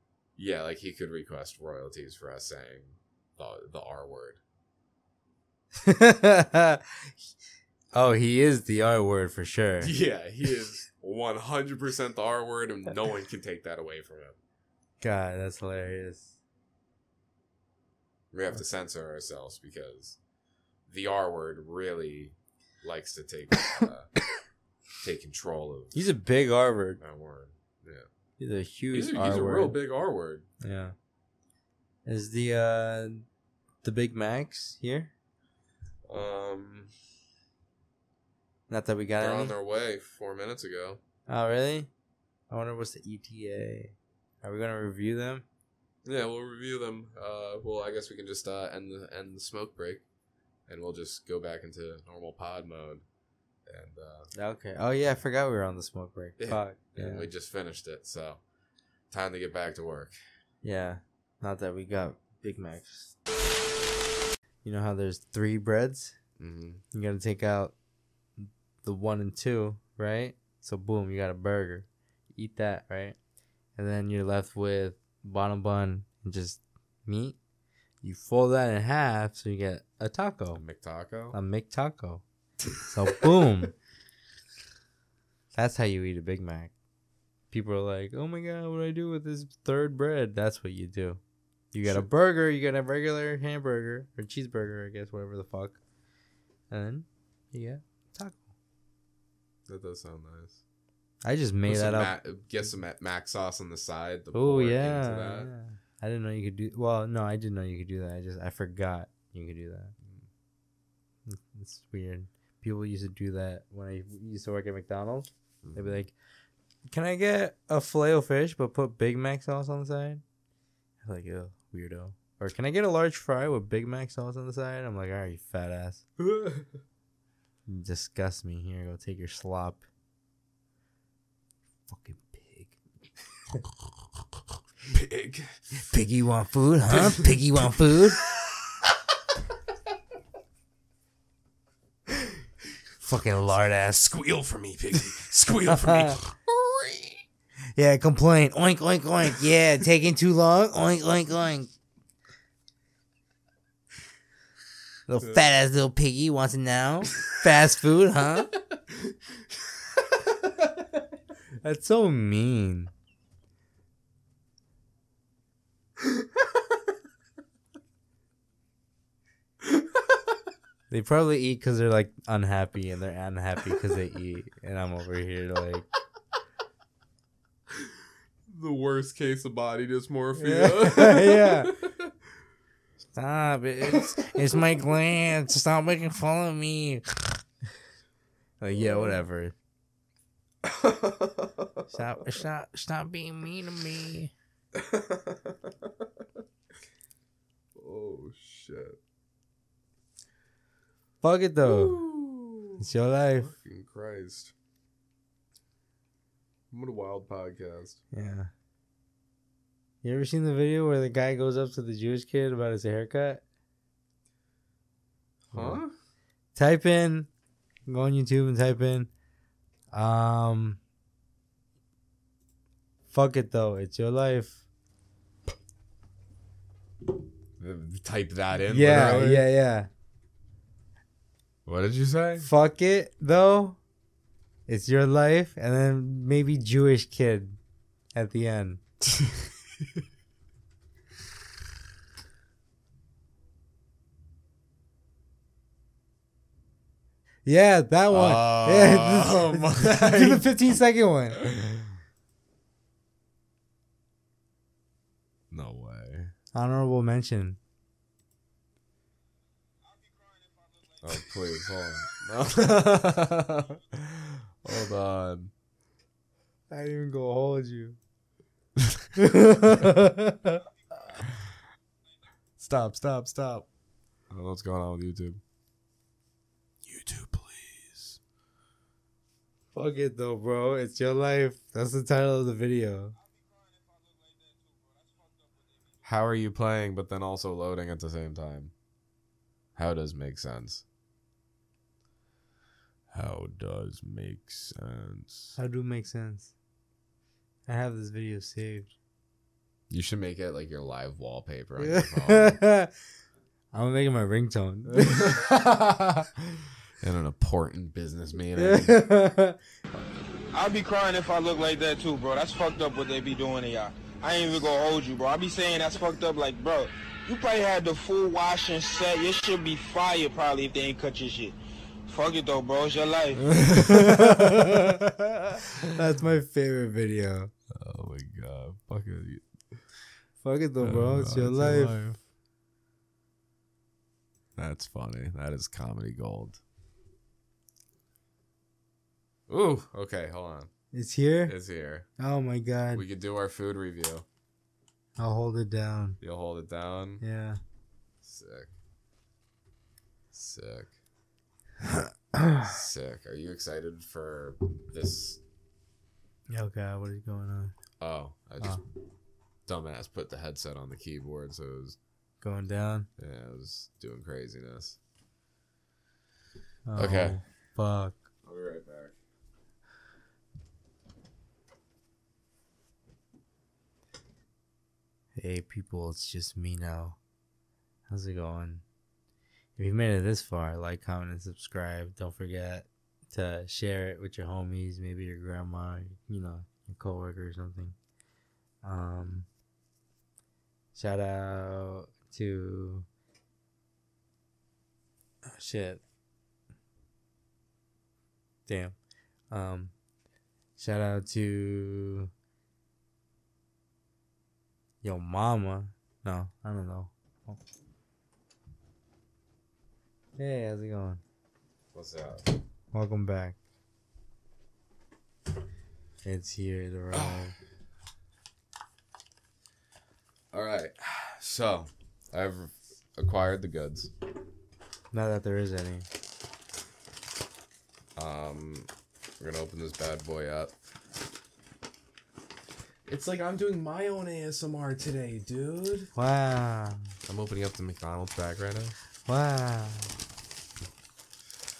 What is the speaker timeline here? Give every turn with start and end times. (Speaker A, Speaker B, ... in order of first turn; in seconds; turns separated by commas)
Speaker A: 0.3-4.4, Speaker B: 5.7-7.1, Speaker B: 7.9-9.9, Speaker A: 9.8-14.4, Speaker B: 15.0-16.4, Speaker A: 18.3-20.2, Speaker A: 20.9-24.1, Speaker A: 25.0-26.0, Speaker B: 25.9-27.0, Speaker A: 27.0-28.1, Speaker B: 28.4-29.8, Speaker A: 28.9-30.4, Speaker B: 30.6-30.9, Speaker B: 32.0-33.2, Speaker B: 33.8-35.1, Speaker A: 36.1-36.9, Speaker B: 38.7-39.5, Speaker A: 39.2-41.0, Speaker B: 41.3-41.9, Speaker B: 42.5-45.4, Speaker A: 46.0-50.0, Speaker A: 50.7-53.0, Speaker A: 53.6-54.3, Speaker B: 54.3-57.3, Speaker A: 56.4-58.4, Speaker A: 59.1-60.2, Speaker B: 60.6-63.1, Speaker B: 64.6-66.2, Speaker A: 66.4-66.8, Speaker B: 66.9-67.7, Speaker B: 68.4-73.2, Speaker B: 73.8-77.4, Speaker B: 78.0-80.6, Speaker A: 80.5-81.4, Speaker B: 81.3-82.2, Speaker B: 82.8-83.7, Speaker B: 85.5-86.7, Speaker B: 87.5-91.2, Speaker B: 91.7-95.8, Speaker B: 96.7-98.5, Speaker A: 99.7-100.6, Speaker B: 101.2-102.1, Speaker A: 101.7-105.5, Speaker B: 104.3-109.9, Speaker A: 110.0-110.3, Speaker B: 111.3-116.1, Speaker A: 115.6-116.0, Speaker B: 116.9-120.2, Speaker B: 121.0-126.0, Speaker A: 126.2-126.7, Speaker B: 127.7-129.8, Speaker B: 131.9-132.8, Speaker A: 134.8-135.6, Speaker B: 135.8-138.2, Speaker A: 136.9-137.7, Speaker A: 138.2-138.6, Speaker B: 143.0-144.1, Speaker A: 144.1-147.2, Speaker B: 145.7-146.2, Speaker B: 147.8-151.7, Speaker B: 155.1-158.5, Speaker A: 158.7-158.9, Speaker B: 161.6-162.9, Speaker B: 170.9-175.9, Speaker A: 178.4-182.1, Speaker B: 180.4-181.7, Speaker B: 183.1-187.0, Speaker A: 183.8-184.6, Speaker B: 188.6-189.5, Speaker A: 188.7-189.2, Speaker A: 190.6-191.8, Speaker B: 191.9-194.3, Speaker A: 194.7-196.0, Speaker A: 197.7-199.0, Speaker B: 201.2-202.0, Speaker A: 201.6-204.5, Speaker B: 202.8-203.5, Speaker A: 206.7-208.0, Speaker B: 208.1-208.5, Speaker B: 210.0-213.4, Speaker A: 215.5-215.9, Speaker B: 215.5-215.8, Speaker B: 216.5-217.3, Speaker B: 217.9-219.1, Speaker B: 219.9-220.8, Speaker B: 223.1-224.6, Speaker A: 227.6-229.5, Speaker B: 228.6-229.9, Speaker A: 231.7-232.5, Speaker B: 232.4-233.8, Speaker B: 234.7-237.6, Speaker B: 238.1-238.8, Speaker A: 239.1-239.4, Speaker B: 247.4-251.4, Speaker A: 248.1-250.5, Speaker A: 251.4-251.9, Speaker A: 255.5-256.3, Speaker B: 256.5-257.6, Speaker A: 261.0-265.5, Speaker B: 266.7-268.0, Speaker B: 269.2-270.6, Speaker A: 271.1-271.4, Speaker A: 272.6-273.7, Speaker A: 274.3-275.4, Speaker A: 276.8-278.2, Speaker B: 279.7-283.1, Speaker A: 286.0-288.7, Speaker A: 289.7-290.8, Speaker A: 293.1-295.6, Speaker B: 295.6-296.5, Speaker B: 297.7-298.9, Speaker A: 299.9-302.6, Speaker B: 301.8-302.9, Speaker B: 303.7-306.2, Speaker A: 304.9-305.7, Speaker A: 307.0-309.0, Speaker B: 308.6-309.6, Speaker C: 310.5-323.4, Speaker A: 323.5-325.6, Speaker B: 323.7-325.0, Speaker B: 325.9-327.5, Speaker A: 327.7-329.4, Speaker B: 330.4-332.1, Speaker A: 330.8-332.2, Speaker A: 334.6-336.6, Speaker A: 339.5-340.7, Speaker B: 340.9-341.5, Speaker A: 341.4-342.1, Speaker B: 342.2-343.0, Speaker A: 342.9-344.2, Speaker B: 345.2-346.2, Speaker A: 346.2-347.2, Speaker B: 347.2-347.6, Speaker A: 348.2-348.7, Speaker A: 350.3-350.9, Speaker B: 351.9-352.7, Speaker A: 352.6-355.4, Speaker B: 356.5-357.7, Speaker A: 358.0-358.8, Speaker A: 359.7-362.0, Speaker B: 362.4-363.1, Speaker A: 363.2-365.0, Speaker B: 366.9-368.3, Speaker A: 366.9-367.4, Speaker A: 368.4-369.1, Speaker B: 375.3-377.2, Speaker B: 378.1-378.8, Speaker B: 379.8-387.9, Speaker B: 388.8-389.5, Speaker B: 390.9-393.1, Speaker B: 395.4-396.0, Speaker B: 398.7-398.9, Speaker B: 399.5-399.9, Speaker B: 400.8-402.3, Speaker B: 405.0-407.6, Speaker B: 410.4-411.2, Speaker A: 411.9-412.6, Speaker B: 412.9-413.6, Speaker B: 416.2-417.5, Speaker A: 417.1-417.5, Speaker A: 420.5-424.1, Speaker B: 425.1-426.1, Speaker A: 428.1-430.7, Speaker A: 433.1-436.1, Speaker B: 436.1-437.1, Speaker A: 437.2-438.9, Speaker B: 439.3-440.1